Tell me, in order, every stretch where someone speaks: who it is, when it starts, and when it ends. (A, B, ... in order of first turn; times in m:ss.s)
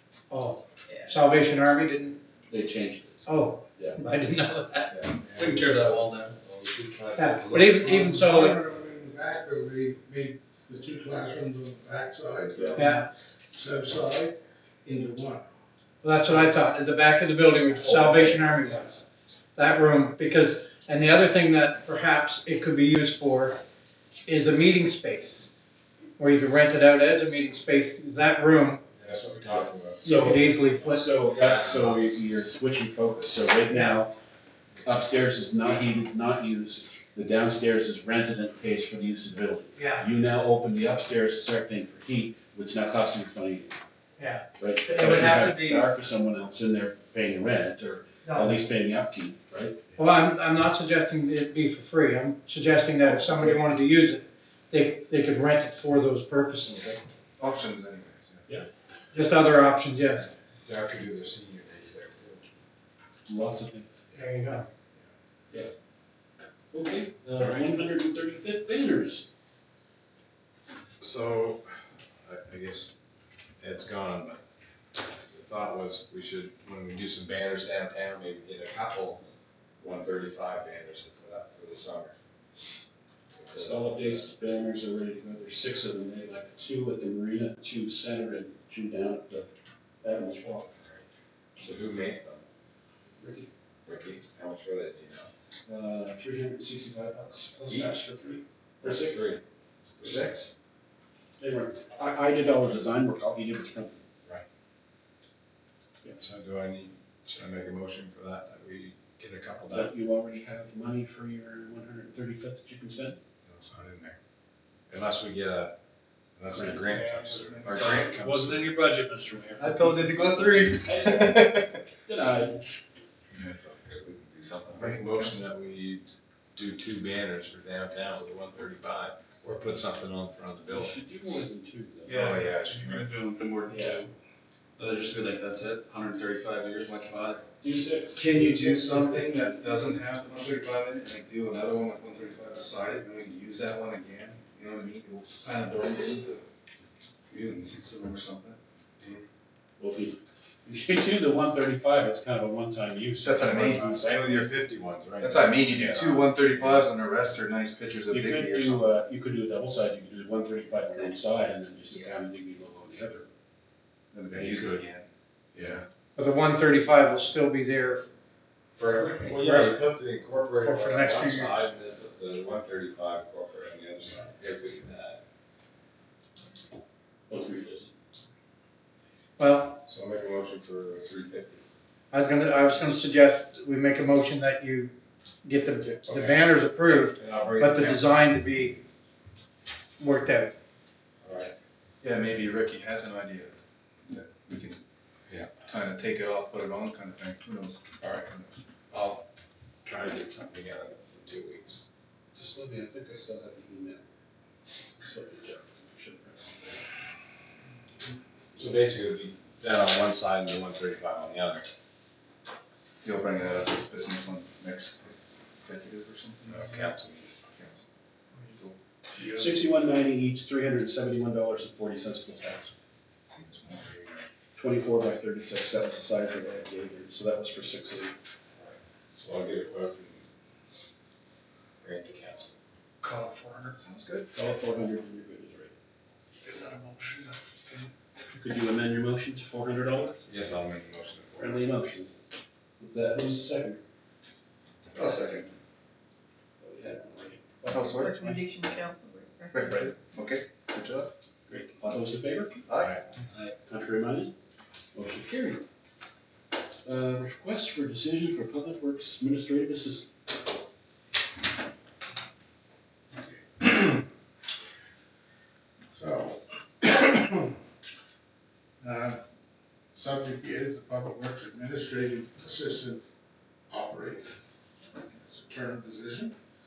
0:00.3-0:02.2 A
0:02.5-0:04.1 B
0:03.2-0:05.0 A
0:04.9-0:08.2 C
0:05.3-0:06.3 D
0:07.2-0:08.6 A
0:07.8-0:15.4 E
0:12.6-0:13.0 B
0:12.7-0:13.0 A
0:16.0-0:23.6 A
0:17.7-0:19.0 B
0:24.2-0:25.5 A
0:26.2-0:28.8 A
0:28.9-0:30.6 C
0:30.0-0:34.1 B
0:30.0-0:31.1 A
0:31.3-0:32.4 C
0:33.7-0:34.0 A
0:34.8-0:43.8 B
0:39.8-0:40.1 A
0:44.2-0:45.9 A
0:44.6-0:49.9 B
0:48.2-0:48.6 A
0:50.0-0:57.0 A
0:53.0-0:53.6 B
0:57.4-0:58.4 F
0:59.1-1:00.3 A
1:00.6-1:02.6 C
1:03.3-1:03.9 B
1:04.1-1:04.7 A
1:06.7-1:09.2 B
1:11.0-1:12.9 C
1:13.6-1:14.4 C
1:15.1-1:19.2 C
1:19.8-1:22.1 C
1:23.3-1:24.4 C
1:23.5-1:29.5 B
1:30.0-1:30.9 B
1:31.6-1:32.4 C
1:33.2-1:33.5 B
1:33.9-1:35.3 C
1:35.7-1:39.4 B
1:37.7-1:38.0 C
1:38.8-1:39.4 C
1:40.0-1:40.5 C
1:40.0-1:40.5 B
1:41.4-1:44.0 B
1:46.1-1:49.9 C
1:49.7-1:53.2 B
1:53.5-1:54.2 C
1:54.9-1:55.7 C
1:56.4-1:58.8 C
1:56.5-1:57.0 B
1:56.8-1:58.1 F
1:57.9-2:02.7 B
1:59.6-2:01.8 F
2:03.3-2:11.0 C
2:04.8-2:05.4 F
2:10.7-2:12.5 B
2:12.1-2:14.0 D
2:12.1-2:13.3 F
2:13.7-2:14.1 B
2:14.8-2:17.4 D
2:17.6-2:19.9 B
2:18.2-2:26.4 F
2:27.3-2:28.6 F
2:29.8-2:34.5 B
2:33.2-2:33.8 F
2:33.5-2:36.9 C
2:35.2-2:38.8 F
2:38.1-2:43.2 B
2:44.1-2:45.1 F
2:44.3-2:44.8 B
2:45.6-2:45.8 C
2:46.2-2:48.1 A
2:48.8-2:55.2 C
2:49.3-2:49.8 A
2:50.6-2:51.6 A
2:57.3-2:57.9 B
2:59.4-2:59.8 A
2:59.8-3:01.6 C
3:02.1-3:04.9 A
3:05.4-3:08.8 A
3:06.0-3:08.2 C
3:10.0-3:10.5 A
3:11.2-3:11.6 C
3:12.0-3:13.5 F
3:14.1-3:14.8 F
3:15.6-3:18.5 F
3:18.9-3:19.2 C
3:19.8-3:21.8 C
3:22.3-3:24.0 B
3:25.0-3:26.8 B
3:28.6-3:31.7 C
3:33.0-3:36.9 F
3:36.5-3:37.4 C
3:37.5-3:37.8 F
3:38.4-3:38.8 F
3:39.2-3:42.7 B
3:43.3-3:44.1 F
3:44.6-3:48.2 B
3:49.2-3:50.2 C
3:51.8-3:52.5 C
3:53.0-3:54.3 F
3:54.3-3:55.8 B
3:56.4-3:57.9 F
3:58.3-4:00.2 B
4:00.2-4:01.6 C
4:01.4-4:02.2 B
4:02.8-4:03.8 B
4:04.9-4:05.5 F
4:06.6-4:08.4 B
4:07.7-4:08.3 F
4:08.0-4:09.7 D
4:09.5-4:11.1 F
4:11.5-4:12.7 B
4:12.7-4:13.0 F
4:12.8-4:13.0 C
4:13.3-4:14.3 B
4:14.9-4:15.6 B
4:16.8-4:20.1 B
4:23.1-4:24.1 E
4:25.9-4:27.6 E
4:28.8-4:29.2 E
4:29.9-4:33.0 E
4:33.7-4:34.3 E
4:35.0-4:36.4 E